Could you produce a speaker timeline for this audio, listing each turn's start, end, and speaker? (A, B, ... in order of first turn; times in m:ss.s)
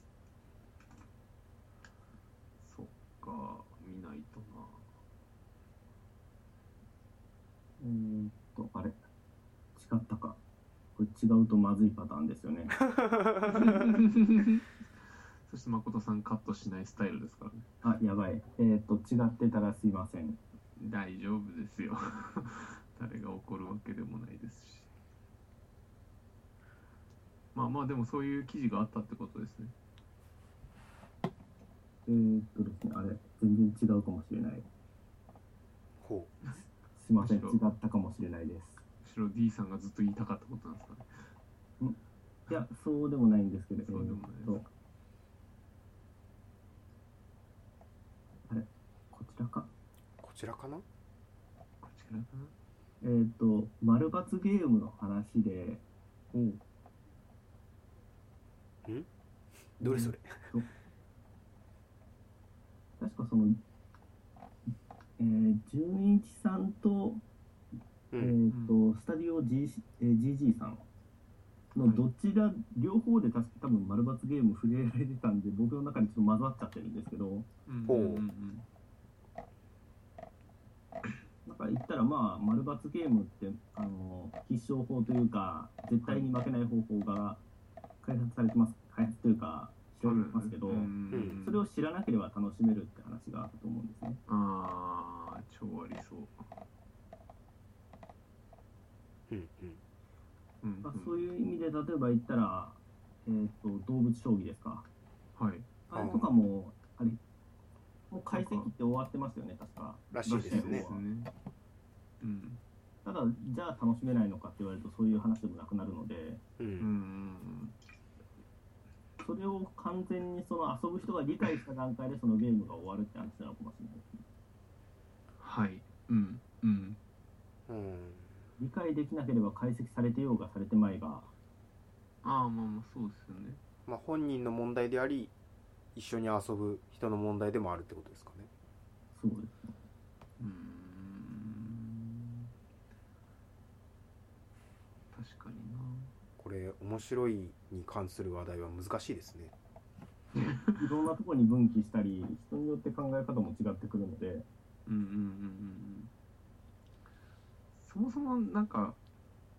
0:02.6-0:04.9 A
0:07.8-0:09.0 B
0:09.8-0:10.4 B
0:11.0-0:12.8 B
0:12.8-0:14.0 C
0:13.5-0:14.7 A
0:15.4-0:17.7 A
0:17.8-0:20.4 B
0:20.8-0:24.9 A
0:27.5-0:29.7 A
0:32.1-0:34.7 B
0:36.0-0:36.3 C
0:37.0-0:38.8 B
0:37.2-0:37.7 A
0:39.0-0:41.3 A
0:41.8-0:44.7 B
0:43.8-0:44.6 A
0:48.5-0:49.7 B
0:50.2-0:50.8 C
0:51.8-0:52.5 A
0:53.0-0:55.8 B
0:56.3-0:56.6 A
0:59.8-1:00.4 C
0:59.8-1:00.7 B
1:03.0-1:03.6 B
1:05.2-1:07.2 B
1:08.1-1:08.4 C
1:08.2-1:10.9 B
1:08.5-1:08.8 A
1:11.8-1:17.5 B
1:17.7-1:18.7 A
1:17.9-1:18.2 C
1:21.5-1:27.4 B
1:28.0-1:34.2 B
1:30.0-1:31.6 A
1:31.1-1:31.4 C
1:34.3-1:36.4 A
1:39.3-1:39.8 C
1:40.6-1:41.3 A
1:40.8-1:44.9 B
1:45.4-1:45.7 A
1:45.9-1:47.2 B
1:45.9-1:46.3 C
1:48.1-1:51.0 B
1:48.3-1:48.7 A
1:50.1-1:50.9 C
1:50.2-1:51.3 A
1:52.2-1:52.6 A
1:53.0-1:56.4 B
1:56.6-1:56.9 C
1:56.8-1:57.8 A
1:59.2-2:04.1 B
2:05.4-2:07.0 A
2:07.7-2:08.3 C
2:08.6-2:11.3 B
2:12.2-2:13.6 A
2:13.9-2:15.3 C
2:16.0-2:18.5 C
2:19.1-2:19.7 B
2:20.4-2:22.5 A
2:25.1-2:26.1 A
2:26.4-2:29.5 C
2:30.3-2:30.8 A
2:30.8-2:34.5 B
2:34.9-2:36.1 A
2:37.7-2:39.0 A